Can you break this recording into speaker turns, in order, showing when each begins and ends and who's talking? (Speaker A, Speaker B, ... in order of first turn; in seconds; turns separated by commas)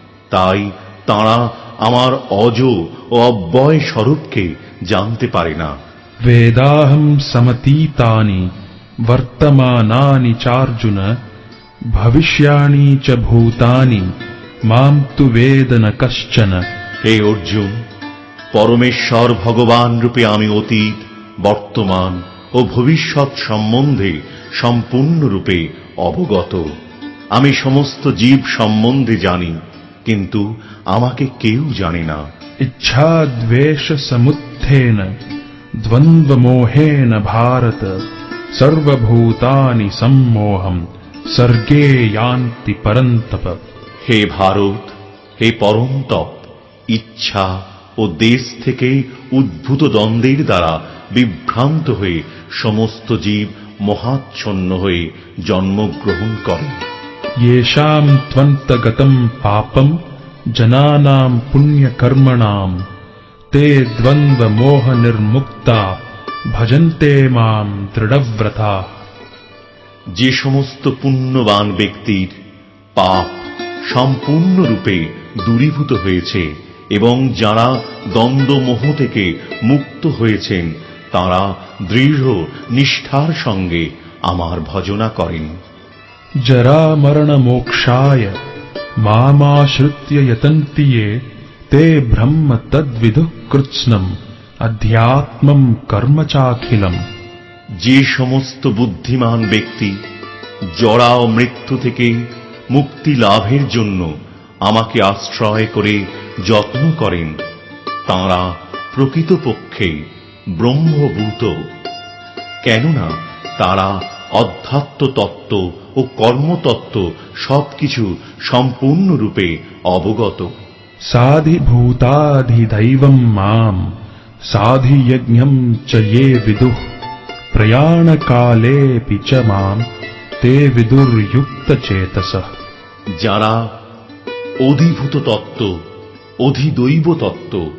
Speaker A: 0.3-5.7, Speaker B: 6.2-8.5, Speaker B: 9.1-11.2, Speaker B: 11.9-14.1, Speaker B: 14.7-16.6, Speaker A: 17.0-17.8, Speaker A: 18.5-26.7, Speaker A: 27.3-32.2, Speaker B: 32.6-35.1, Speaker B: 35.8-38.0, Speaker B: 38.5-43.6, Speaker A: 44.0-56.8, Speaker B: 57.4-60.0, Speaker B: 60.5-62.8, Speaker B: 63.5-66.0, Speaker B: 66.5-68.9, Speaker A: 70.2-72.4, Speaker A: 73.0-85.5, Speaker B: 86.4-88.4, Speaker B: 89.0-91.2, Speaker B: 91.7-94.1, Speaker B: 94.6-97.0, Speaker A: 97.8-100.0, Speaker A: 100.7-102.2, Speaker A: 102.7-104.1, Speaker A: 104.7-107.4, Speaker A: 108.1-110.0, Speaker A: 110.6-111.6, Speaker A: 112.7-120.5, Speaker B: 121.1-123.8, Speaker B: 124.5-126.8, Speaker B: 127.5-129.8, Speaker B: 130.4-132.5, Speaker A: 133.2-133.6, Speaker A: 134.6-135.7, Speaker A: 136.4-137.6